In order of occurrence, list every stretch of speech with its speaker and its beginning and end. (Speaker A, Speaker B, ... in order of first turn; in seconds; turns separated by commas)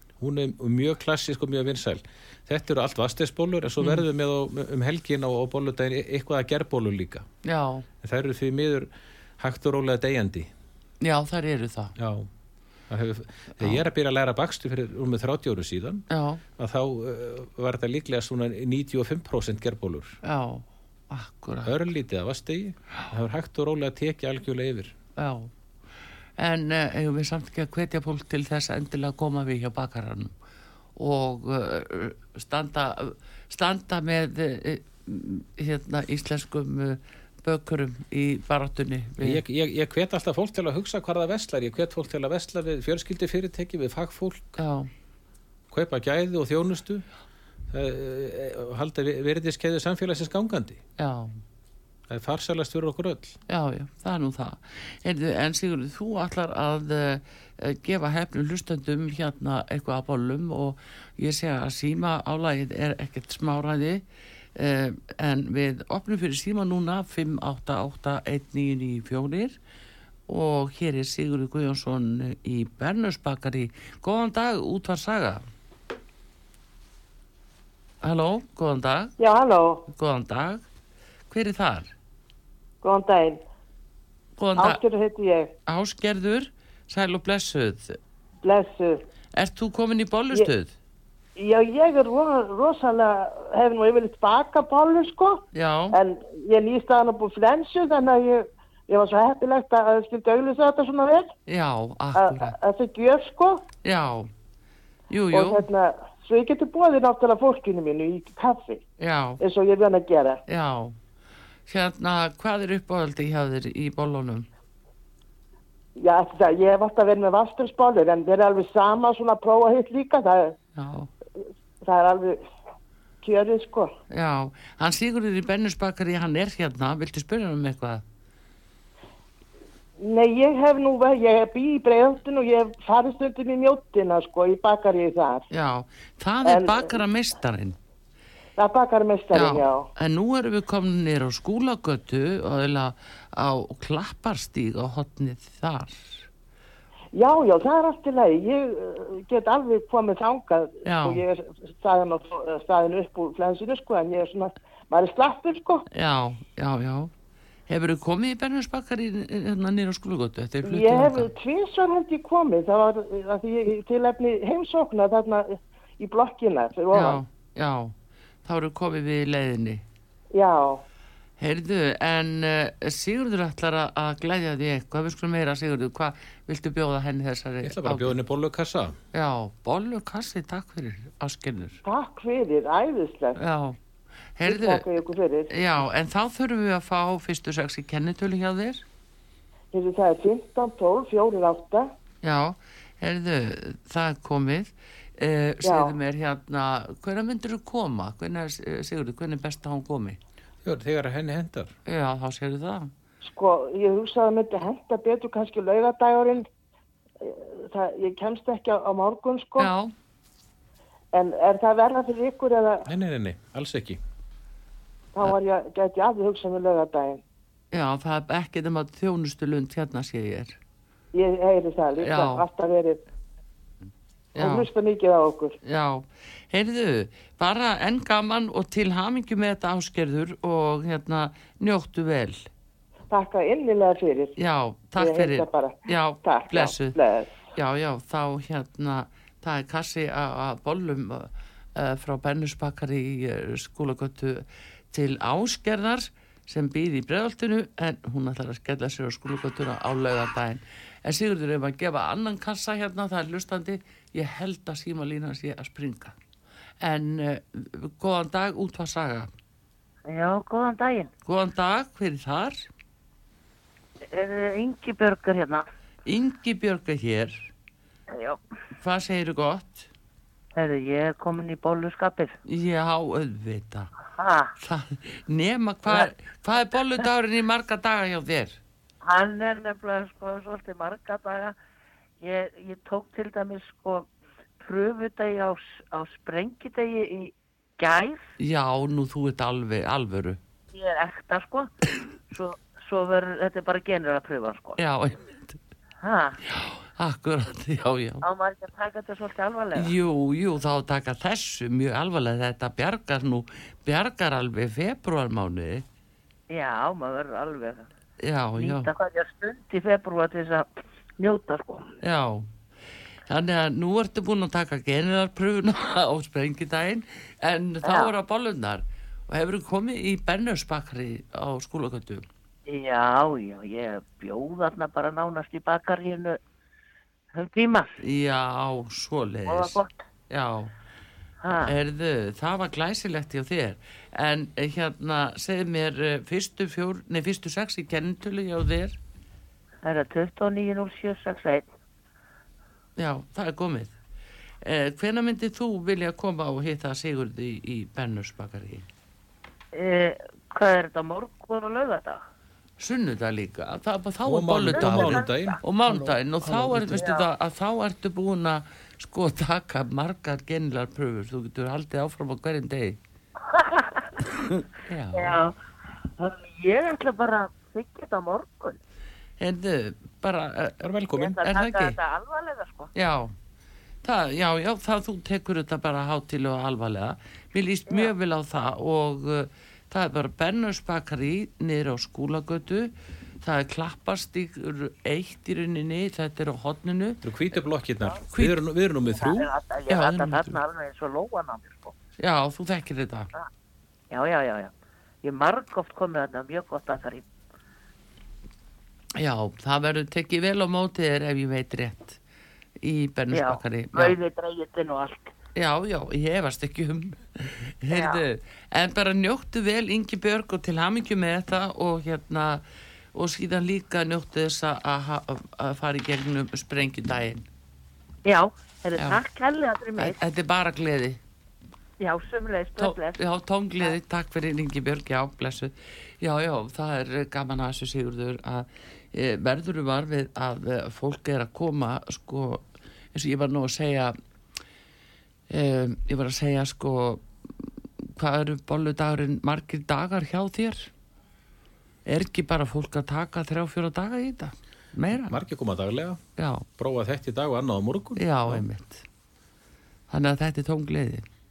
Speaker A: 0.2-7.3, Speaker B: 3.8-4.0, Speaker B: 7.4-7.9, Speaker A: 8.0-10.5, Speaker B: 11.0-11.9, Speaker A: 12.0-12.3, Speaker A: 12.9-16.1, Speaker B: 16.1-16.4, Speaker A: 16.6-20.2, Speaker B: 20.2-21.8, Speaker A: 21.6-24.9, Speaker B: 25.1-25.5, Speaker B: 26.4-30.3, Speaker B: 30.9-39.4, Speaker A: 39.2-44.6, Speaker B: 44.6-44.9, Speaker A: 45.7-47.0, Speaker A: 47.7-50.8, Speaker B: 51.0-51.4, Speaker A: 52.1-53.4, Speaker B: 53.5-64.0, Speaker B: 64.5-69.6, Speaker B: 70.3-75.4, Speaker B: 78.0-79.1, Speaker C: 79.2-79.8, Speaker B: 79.9-80.6, Speaker B: 81.3-81.9, Speaker C: 82.8-83.4, Speaker B: 84.4-84.8, Speaker C: 84.5-85.5, Speaker B: 85.7-88.0, Speaker C: 88.4-89.0, Speaker B: 89.3-90.7, Speaker C: 91.3-101.3, Speaker B: 95.5-96.0, Speaker B: 101.5-102.5, Speaker C: 102.1-103.6, Speaker B: 103.8-104.3, Speaker B: 105.1-105.7, Speaker C: 105.3-108.8, Speaker B: 109.0-109.4, Speaker C: 109.4-110.4, Speaker B: 110.5-111.0, Speaker B: 111.7-114.5, Speaker C: 116.0-120.5, Speaker B: 120.8-121.1, Speaker C: 121.8-122.4, Speaker C: 123.2-123.9, Speaker B: 124.1-128.0, Speaker C: 130.0-135.4, Speaker B: 135.5-137.8, Speaker C: 136.4-137.0, Speaker C: 138.6-139.9, Speaker B: 139.3-146.3, Speaker C: 147.1-155.8, Speaker B: 150.8-151.2, Speaker B: 155.9-157.1, Speaker B: 157.7-161.3, Speaker C: 160.6-167.2, Speaker B: 166.9-169.8, Speaker C: 170.3-170.8, Speaker B: 171.4-178.2, Speaker A: 177.6-179.0, Speaker B: 179.1-181.8, Speaker C: 181.8-183.4, Speaker B: 183.3-183.8, Speaker B: 184.3-184.9, Speaker C: 184.4-185.5, Speaker B: 185.5-188.8, Speaker C: 189.7-191.9, Speaker B: 192.2-200.2, Speaker C: 195.6-195.9, Speaker A: 200.6-201.7, Speaker B: 201.8-202.9, Speaker C: 203.2-206.5, Speaker C: 207.2-209.7, Speaker B: 209.6-209.9, Speaker C: 211.1-212.8, Speaker A: 212.8-214.0, Speaker C: 215.1-217.2, Speaker B: 217.7-220.6, Speaker C: 221.1-223.0, Speaker B: 222.0-222.4, Speaker B: 224.3-224.7, Speaker C: 224.4-225.6, Speaker B: 225.6-232.5, Speaker C: 233.1-234.3, Speaker B: 234.4-237.0, Speaker C: 235.0-237.4, Speaker B: 237.5-256.1, Speaker B: 256.8-259.3, Speaker D: 260.1-261.1, Speaker B: 261.2-262.7, Speaker D: 264.0-265.6, Speaker B: 266.0-267.5, Speaker D: 268.1-268.4, Speaker B: 268.8-269.9, Speaker D: 270.6-272.4, Speaker B: 272.4-273.9, Speaker D: 274.1-274.5, Speaker B: 274.6-278.6, Speaker D: 279.0-281.5, Speaker D: 282.2-284.1, Speaker D: 284.6-288.3, Speaker B: 288.4-290.4, Speaker D: 290.7-291.7, Speaker D: 292.3-294.8, Speaker B: 294.8-295.6, Speaker D: 296.0-296.4, Speaker B: 296.4-298.2, Speaker D: 298.2-299.9, Speaker B: 299.8-305.8, Speaker D: 306.5-307.9, Speaker B: 308.2-308.9, Speaker D: 308.6-310.7, Speaker D: 311.2-311.9, Speaker B: 312.0-312.5, Speaker B: 313.2-322.2, Speaker D: 317.8-318.1, Speaker D: 322.7-326.4, Speaker D: 327.3-328.0, Speaker B: 328.0-330.7, Speaker D: 329.5-330.0, Speaker D: 331.4-331.7, Speaker B: 331.6-339.0, Speaker D: 339.8-341.7, Speaker B: 343.0-343.9, Speaker B: 344.6-348.9, Speaker D: 349.7-352.2, Speaker B: 352.8-363.0, Speaker A: 354.2-356.9, Speaker D: 354.7-355.6, Speaker D: 356.9-357.2, Speaker D: 363.4-364.2, Speaker B: 364.8-365.4, Speaker D: 365.1-368.8, Speaker B: 369.4-372.0, Speaker A: 370.8-371.4, Speaker D: 371.1-372.9, Speaker B: 372.9-373.3, Speaker B: 374.0-387.3, Speaker A: 387.2-389.5, Speaker B: 388.3-388.6, Speaker D: 389.1-391.9, Speaker B: 389.9-390.6, Speaker B: 392.2-393.3, Speaker D: 394.1-394.7, Speaker D: 395.2-397.2, Speaker B: 399.1-402.2, Speaker B: 402.8-404.1, Speaker D: 403.3-405.3, Speaker B: 405.5-412.6, Speaker D: 407.9-408.2, Speaker B: 413.1-417.4, Speaker D: 418.2-420.2, Speaker B: 420.0-421.2, Speaker D: 422.0-423.2, Speaker B: 422.8-434.1, Speaker B: 435.5-440.9, Speaker B: 442.1-445.4, Speaker A: 445.2-446.2, Speaker B: 446.4-446.7, Speaker A: 446.8-448.6, Speaker B: 448.2-449.0, Speaker B: 450.1-451.2